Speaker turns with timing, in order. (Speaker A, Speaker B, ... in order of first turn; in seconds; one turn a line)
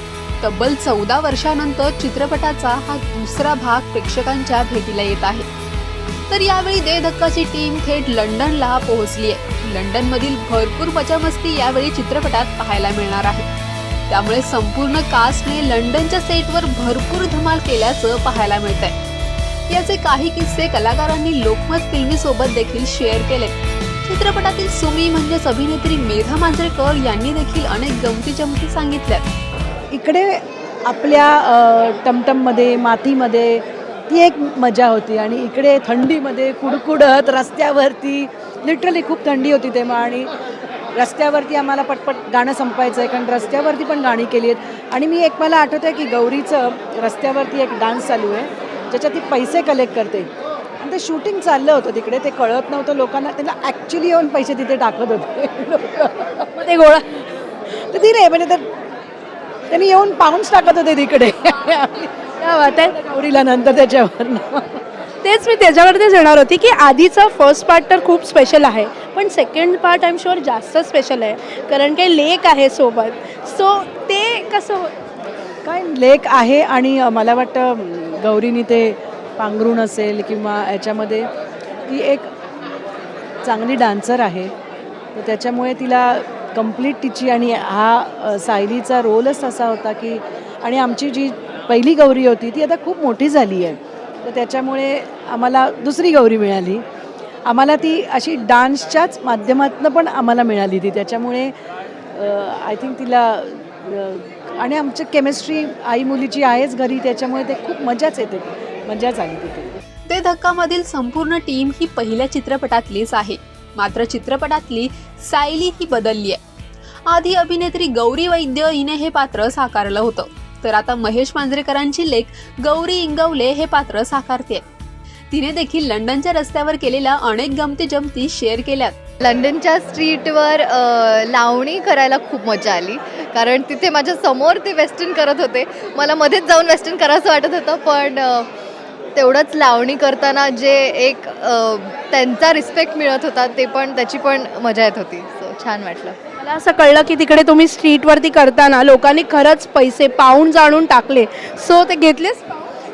Speaker A: 0.4-5.5
Speaker A: 6.3-13.5
Speaker A: 14.1-18.9
Speaker A: 19.7-29.3
Speaker B: 29.9-30.3
Speaker B: 30.9-40.3
Speaker B: 41.0-50.3
Speaker B: 50.8-56.5
Speaker C: 56.7-57.0
Speaker B: 57.9-58.6
Speaker B: 59.7-62.2
Speaker C: 62.4-62.9
Speaker B: 62.9-64.8
Speaker C: 65.2-74.9
Speaker B: 75.7-81.3
Speaker B: 81.9-82.3
Speaker B: 83.4-84.5
Speaker B: 85.2-96.8
Speaker B: 97.5-101.5
Speaker B: 102.1-109.7
Speaker A: 110.1-116.4
Speaker A: 117.1-124.6
Speaker A: 125.3-129.0
Speaker D: 129.2-138.5
Speaker D: 139.1-146.2
Speaker C: 146.4-152.6